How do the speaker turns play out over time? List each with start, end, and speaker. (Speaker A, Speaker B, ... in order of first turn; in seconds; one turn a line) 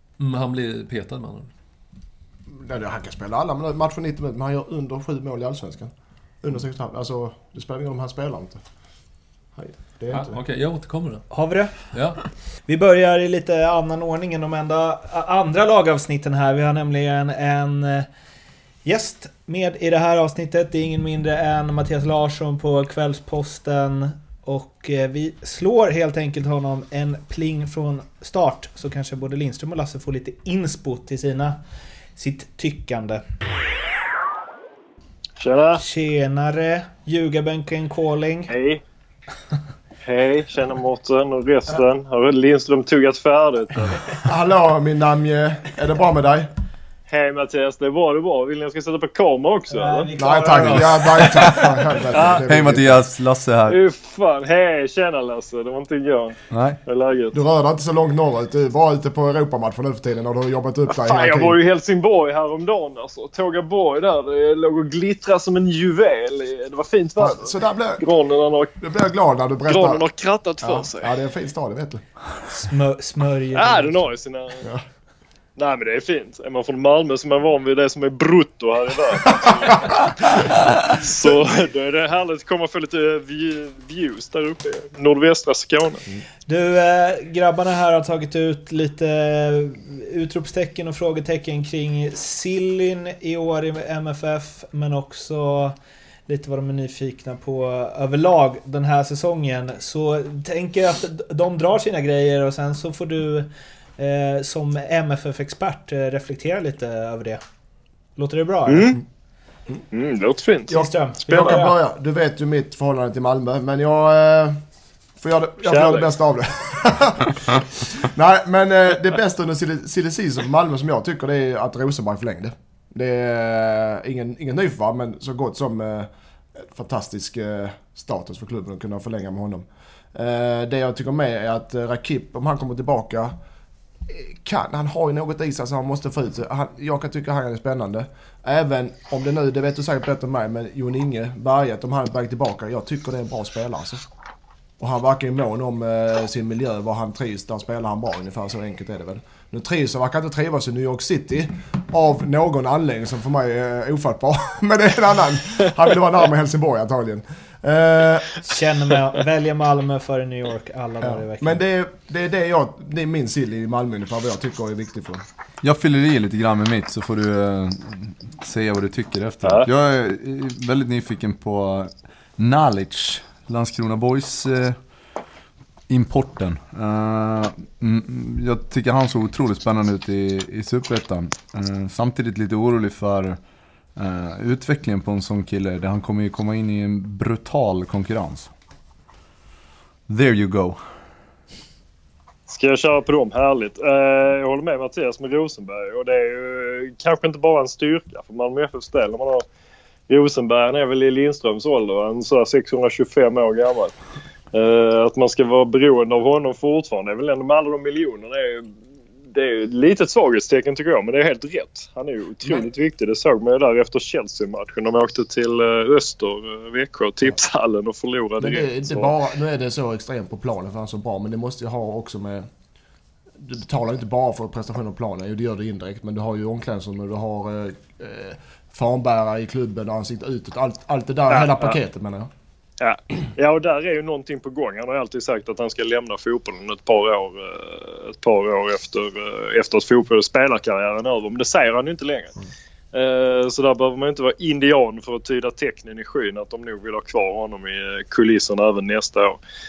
Speaker A: 0.2-1.5
Speaker B: 2.5-5.9
Speaker B: 6.4-8.6
Speaker B: 9.6-10.4
Speaker A: 10.1-11.2
Speaker C: 11.3-11.9
Speaker A: 11.9-12.2
Speaker C: 12.7-18.1
Speaker C: 18.8-31.6
Speaker C: 32.1-33.2
Speaker D: 35.4-35.8
Speaker C: 35.8-38.5
Speaker D: 38.5-38.8
Speaker D: 40.0-44.2
Speaker B: 44.2-46.5
Speaker D: 47.1-50.1
Speaker C: 49.7-51.8
Speaker B: 50.2-53.0
Speaker E: 51.3-51.7
Speaker D: 52.1-52.5
Speaker E: 52.4-53.8
Speaker D: 53.7-57.4
Speaker E: 56.5-56.8
Speaker B: 57.3-61.6
Speaker D: 60.9-68.7
Speaker B: 67.2-68.0
Speaker B: 68.8-70.0
Speaker D: 69.7-71.2
Speaker B: 70.6-72.0
Speaker C: 72.5-74.1
Speaker D: 73.5-74.7
Speaker D: 75.6-86.0
Speaker C: 86.5-95.8
Speaker C: 96.3-107.4
Speaker C: 108.2-108.9
Speaker D: 108.7-109.0
Speaker D: 109.9-111.7
Speaker C: 110.7-111.7
Speaker B: 111.3-114.6
Speaker B: 115.2-133.3
Speaker D: 115.6-116.1
Speaker B: 134.1-144.0
Speaker B: 144.8-158.4
Speaker C: 158.4-161.6
Speaker B: 161.0-165.2
Speaker E: 165.6-174.8
Speaker D: 169.4-169.7
Speaker E: 175.9-183.4
Speaker E: 183.9-188.5
Speaker E: 190.1-190.8
Speaker D: 192.5-199.4
Speaker D: 200.1-203.9
Speaker D: 204.5-208.7
Speaker D: 209.3-219.2
Speaker B: 218.4-222.5
Speaker B: 223.4-232.3
Speaker D: 231.3-231.8
Speaker D: 232.8-242.3
Speaker D: 242.9-249.4